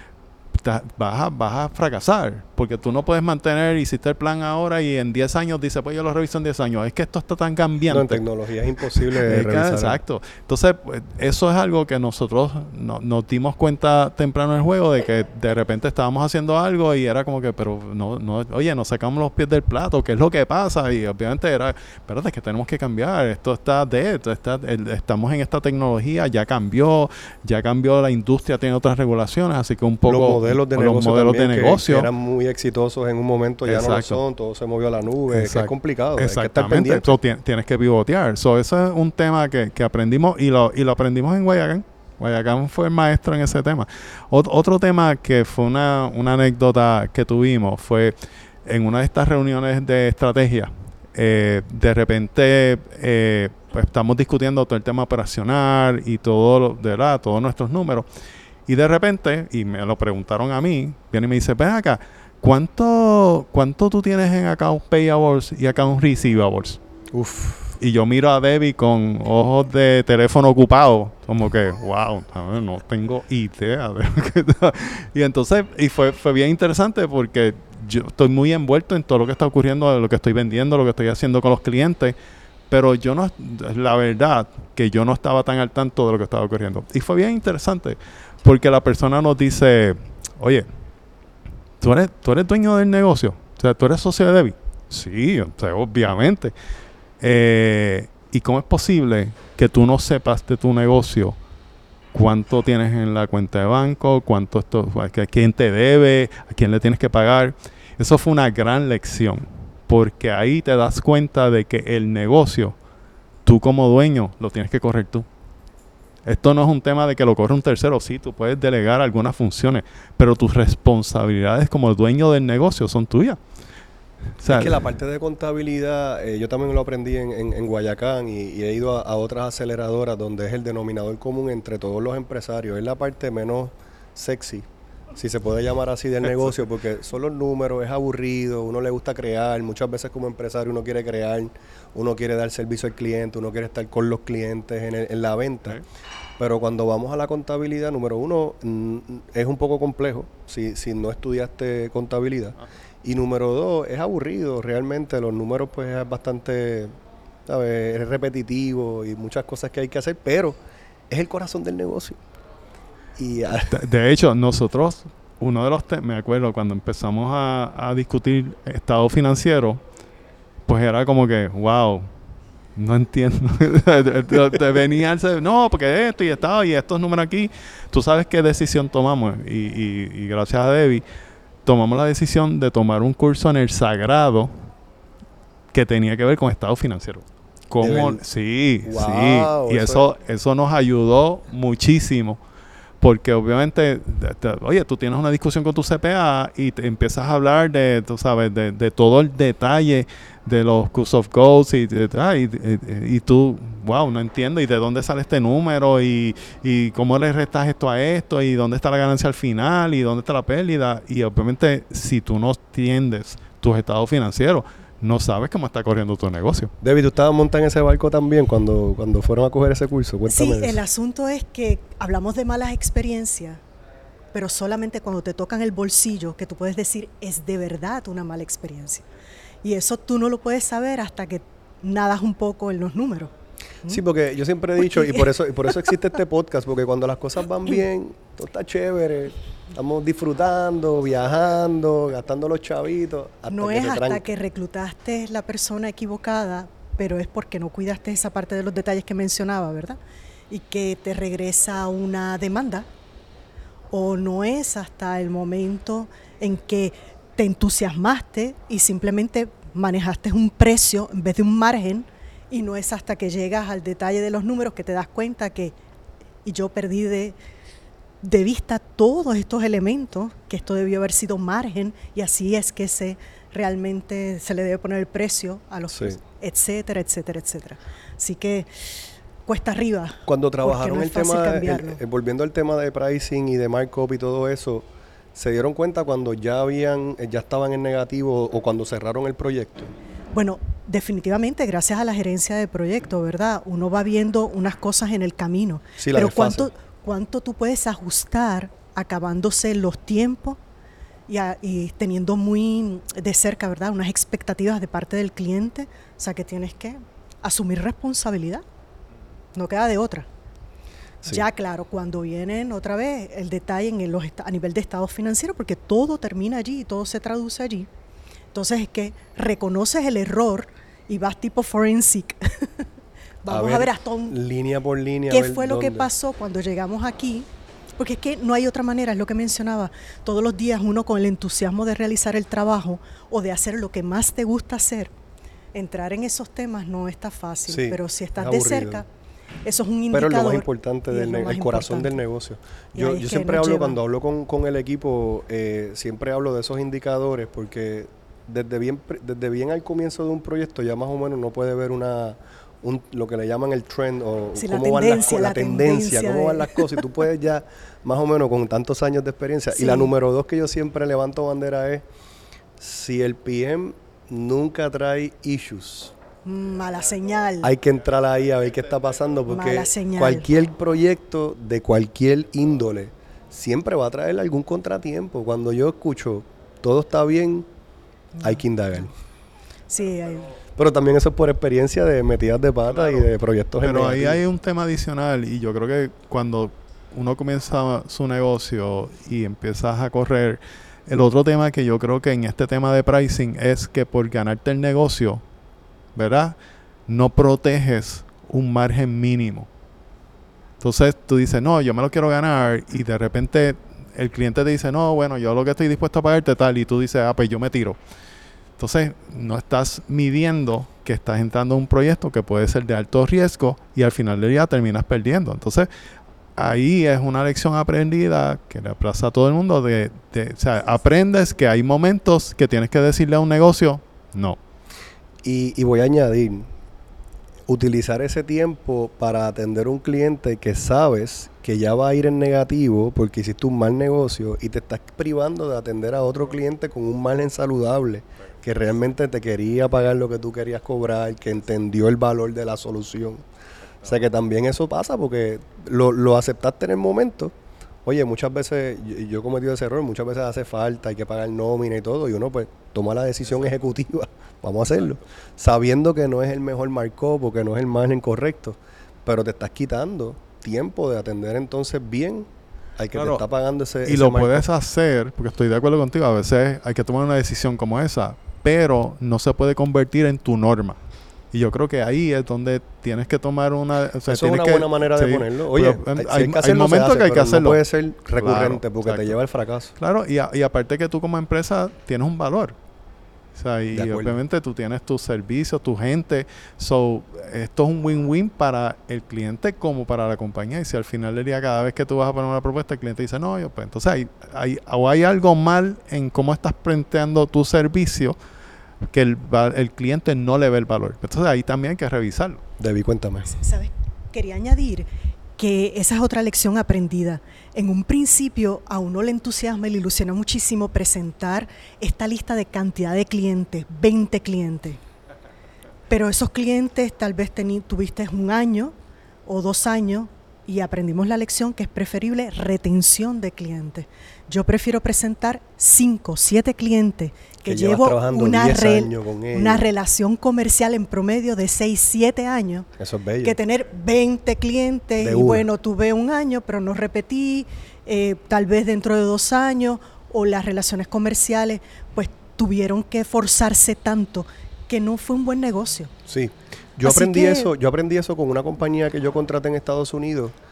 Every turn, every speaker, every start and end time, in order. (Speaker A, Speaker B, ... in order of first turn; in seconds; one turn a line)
Speaker A: 0.6-8.2
Speaker B: 7.9-10.0
Speaker A: 9.0-32.1
Speaker B: 30.1-37.1
Speaker A: 33.7-34.2
Speaker A: 35.3-58.1
Speaker A: 58.7-66.8
Speaker B: 67.1-67.8
Speaker A: 67.8-82.2
Speaker A: 82.7-90.7
Speaker A: 91.8-96.5
Speaker A: 97.2-101.4
Speaker A: 102.1-112.8
Speaker A: 113.5-115.3
Speaker A: 116.2-123.4
Speaker A: 124.4-124.8
Speaker B: 124.5-145.8
Speaker B: 146.4-160.6
Speaker B: 161.1-162.2
Speaker B: 163.2-163.8
Speaker A: 163.7-169.8
Speaker A: 170.7-172.1
Speaker A: 172.8-181.0
Speaker A: 181.7-184.7
Speaker A: 185.7-192.4
Speaker B: 187.8-188.2
Speaker B: 188.8-190.1
Speaker A: 193.0-216.7
Speaker B: 216.8-220.8
Speaker C: 220.3-223.6
Speaker C: 224.3-229.1
Speaker C: 229.6-233.3
Speaker B: 233.9-244.3
Speaker C: 234.9-235.2
Speaker C: 243.5-250.0
Speaker C: 250.5-252.9
Speaker C: 253.9-265.8
Speaker C: 266.4-267.4
Speaker C: 268.2-282.0
Speaker B: 280.3-289.9
Speaker C: 290.3-300.6
Speaker B: 296.0-296.7
Speaker C: 301.3-308.6
Speaker C: 309.6-310.3
Speaker C: 311.3-317.9
Speaker C: 318.5-322.9
Speaker C: 323.4-324.4
Speaker B: 323.5-326.1
Speaker C: 325.3-327.5
Speaker C: 328.0-335.1
Speaker C: 335.7-339.1
Speaker B: 337.7-339.1
Speaker C: 339.6-342.2
Speaker B: 340.1-362.1
Speaker C: 342.9-344.0
Speaker C: 354.6-356.9
Speaker C: 359.7-360.1
Speaker B: 362.8-366.1
Speaker C: 366.4-367.7
Speaker B: 367.6-377.7
Speaker C: 369.5-370.5
Speaker C: 378.4-379.1
Speaker B: 378.4-379.1
Speaker C: 379.9-380.5
Speaker B: 380.8-384.4
Speaker A: 383.8-395.4
Speaker A: 396.1-396.6
Speaker A: 397.1-399.7
Speaker A: 400.8-408.0
Speaker A: 408.8-415.9
Speaker A: 416.6-424.6
Speaker B: 425.4-426.7
Speaker B: 427.7-443.4
Speaker B: 444.0-464.7
Speaker A: 463.1-463.4
Speaker A: 464.1-471.0
Speaker A: 471.5-477.8
Speaker B: 474.3-479.9
Speaker A: 478.4-479.4
Speaker A: 480.0-482.8
Speaker A: 483.6-498.4
Speaker B: 483.9-484.4
Speaker A: 499.1-502.6
Speaker B: 502.8-503.5
Speaker C: 503.5-505.1
Speaker C: 505.6-515.0
Speaker C: 516.1-518.9
Speaker C: 519.5-532.9
Speaker B: 527.6-529.9
Speaker B: 533.0-533.6
Speaker C: 533.4-546.1
Speaker B: 535.2-535.7
Speaker B: 546.3-550.5
Speaker C: 547.0-547.7